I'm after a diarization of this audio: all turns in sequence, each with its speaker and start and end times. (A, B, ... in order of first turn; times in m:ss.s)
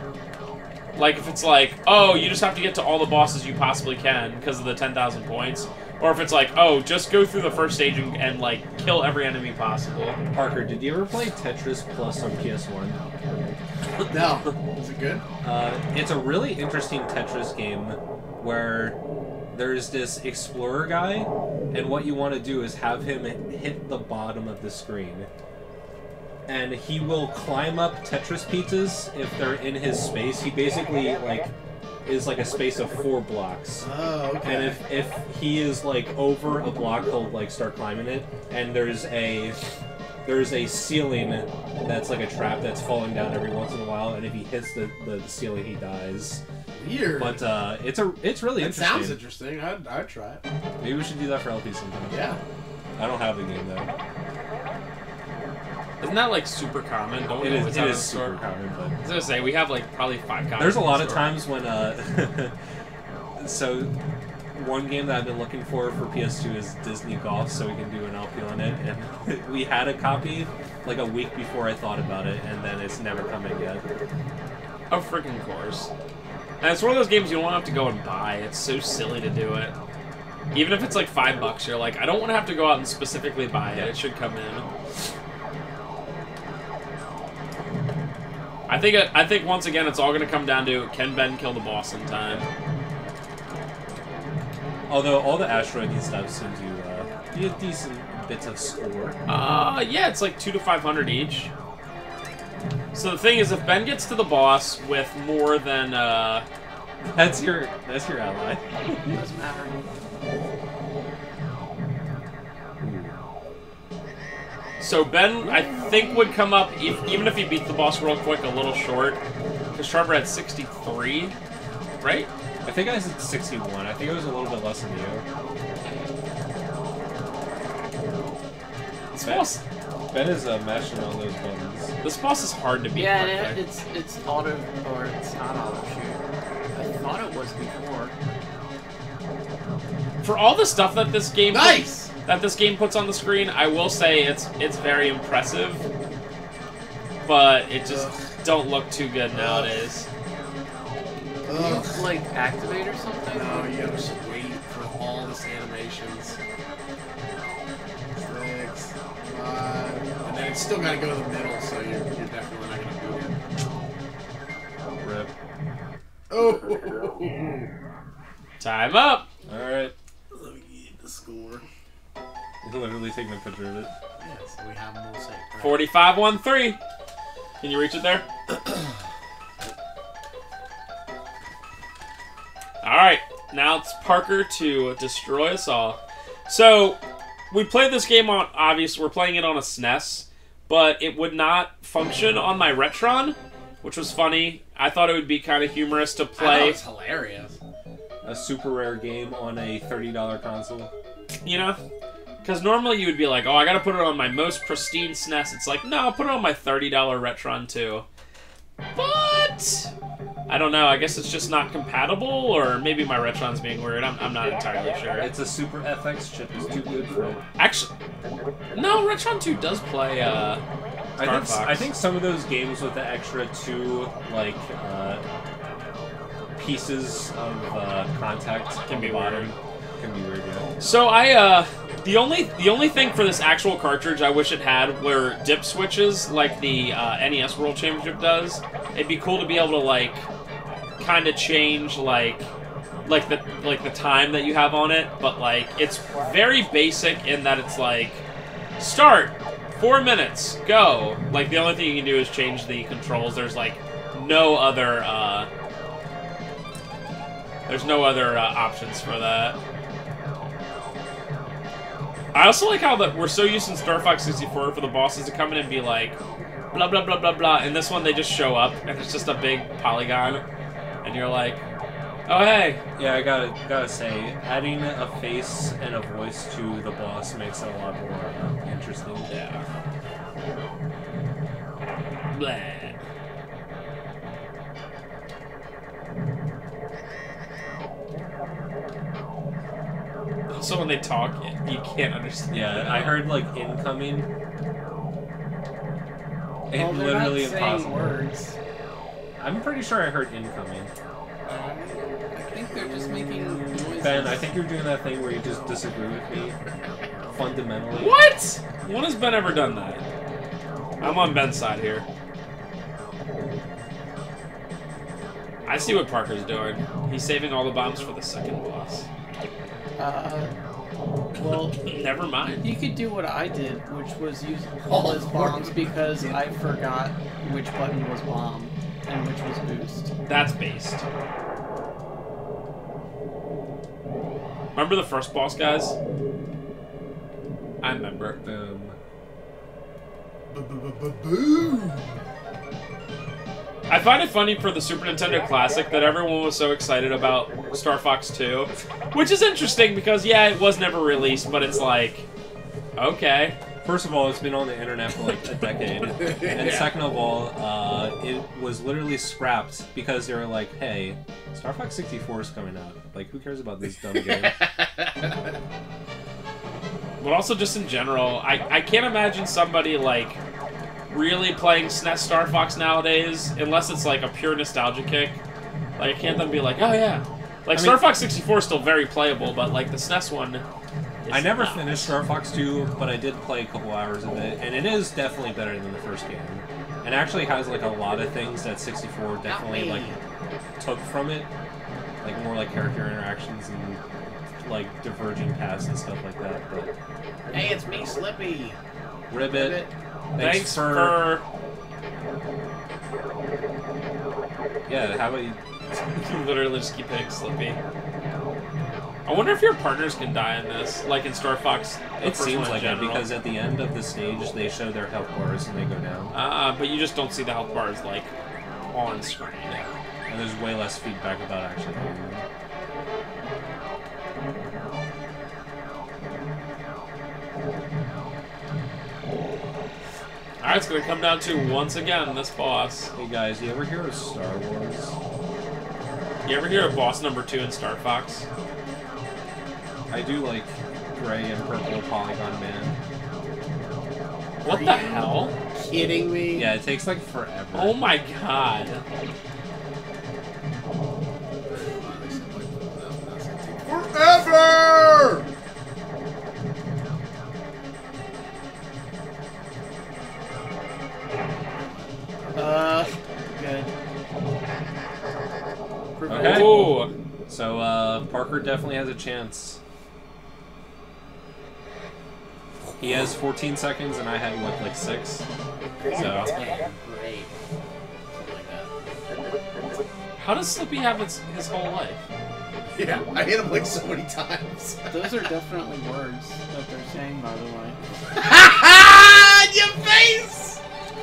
0:00.9-0:10.2 A
0:10.3-0:13.6 B
0:14.1-0:15.2 C
0:15.4-0:19.0 B
0:19.5-0:25.3 B
0:26.5-0:31.5 B
0:32.0-0:33.9 B
0:33.8-0:34.8 C
0:34.4-0:39.6 B
0:40.2-0:46.4 B
0:46.7-0:47.4 C
0:47.2-0:49.2 B
0:48.6-0:50.4 C
0:50.8-0:52.3 B
0:52.1-0:52.4 C
0:53.0-0:53.9 B
0:56.0-0:58.3 A
0:57.4-0:58.9 B
0:59.0-1:01.3 A
1:00.6-1:02.5 B
1:03.4-1:03.9 B
1:04.5-1:13.8 B
1:14.9-1:15.9 A
1:16.6-1:19.7 A
1:20.5-1:24.6 A
1:28.7-1:32.4 A
1:34.9-1:39.2 B
1:39.3-1:41.5 A
1:42.9-1:46.4 A
1:47.0-1:49.2 B
1:49.1-1:49.8 D
1:52.8-1:53.1 B
1:54.8-1:59.2 A
1:59.8-2:01.3 A
2:02.0-2:02.3 A
2:02.6-2:05.2 B
2:09.1-2:09.6 A
2:09.2-2:09.5 B
2:10.1-2:11.9 B
2:12.0-2:13.6 A
2:12.9-2:16.2 D
2:16.7-2:18.1 D
2:20.2-2:25.8 A
2:21.5-2:22.1 C
2:27.2-2:30.0 A
2:27.8-2:28.1 C
2:29.3-2:29.7 C
2:31.4-2:32.0 C
2:31.5-2:33.7 D
2:33.3-2:36.4 C
2:38.2-2:43.4 C
2:45.0-2:45.3 B
2:46.3-2:47.7 C
2:48.6-2:49.2 A
2:49.5-2:49.9 B
2:50.3-2:51.6 C
2:52.6-2:53.9 B
2:54.2-2:55.8 C
2:55.6-2:56.8 A
2:57.6-2:58.2 A
2:58.5-2:58.8 C
3:02.8-3:07.0 A
3:07.5-3:16.8 A
3:16.4-3:17.6 C
3:18.2-3:20.9 B
3:21.4-3:21.8 A
3:22.4-3:28.0 A
3:28.9-3:29.9 A
3:30.5-3:35.3 A
3:35.2-3:37.4 B
3:37.6-3:37.9 A
3:38.7-3:40.6 A
3:41.2-3:45.2 B
3:41.2-3:41.9 A
3:46.6-3:50.7 B
3:48.9-3:49.5 A
3:50.8-4:00.2 A
4:01.0-4:02.5 A
4:03.0-4:08.2 A
4:08.8-4:15.5 A
4:17.7-4:19.6 A
4:22.3-4:26.2 A
4:26.7-4:30.4 A
4:31.0-4:31.6 A
4:32.3-4:32.8 A
4:33.0-4:39.3 B
4:39.3-4:39.6 A
4:42.3-4:43.0 A
4:50.5-4:53.2 A
4:52.5-4:54.3 B
4:56.7-4:58.2 B
4:56.7-4:58.5 D
4:59.4-5:00.9 B
5:01.4-5:04.5 D
5:02.8-5:06.6 B
5:07.3-5:08.2 B
5:07.9-5:10.0 A
5:11.0-5:12.0 A
5:15.7-5:19.0 A
5:20.0-5:20.5 D
5:21.4-5:21.8 D
5:21.8-5:22.6 A
5:22.6-5:30.1 D
5:24.8-5:26.4 C
5:30.3-5:31.0 A
5:34.7-5:36.0 A
5:37.8-5:38.4 A
5:38.4-5:39.0 B
5:40.5-5:42.1 C
5:43.9-5:52.2 A
5:53.0-5:53.6 A
5:53.8-6:04.6 B
5:56.0-5:56.9 C
6:04.1-6:05.5 C
6:07.2-6:10.4 A
6:11.1-6:15.4 A
6:16.0-6:20.6 A
6:17.7-6:18.0 B
6:21.2-6:22.1 A
6:21.3-6:30.1 B
6:29.4-6:30.2 C
6:30.8-6:31.5 B
6:32.2-6:34.0 B
6:34.6-6:36.9 B
6:37.5-6:38.8 C
6:39.3-6:39.8 B
6:39.4-6:39.9 C
6:40.3-6:41.2 B
6:40.4-6:41.4 A
6:44.9-6:45.6 B
6:46.2-6:47.8 A
6:49.2-6:53.3 A
6:52.2-6:56.3 B
6:56.3-6:58.3 A
6:58.9-6:59.9 A
7:00.3-7:02.4 B
7:10.6-7:13.1 A
7:13.2-7:15.1 B
7:16.4-7:18.4 A
7:20.1-7:23.0 B
7:24.6-7:25.3 C
7:24.6-7:25.5 A
7:25.9-7:26.7 C
7:26.5-7:28.0 B
7:27.7-7:29.0 A
7:31.7-7:35.4 C
7:42.5-7:43.9 D
7:46.2-7:46.9 D
7:46.3-7:46.8 B
7:46.3-7:47.1 A
7:47.5-7:49.8 B
7:53.0-7:55.4 B
7:56.1-7:56.5 B
7:56.2-7:57.5 C
7:58.3-7:58.9 C
8:00.4-8:02.2 A
8:02.9-8:05.3 C
8:05.1-8:08.0 D
8:08.3-8:10.8 C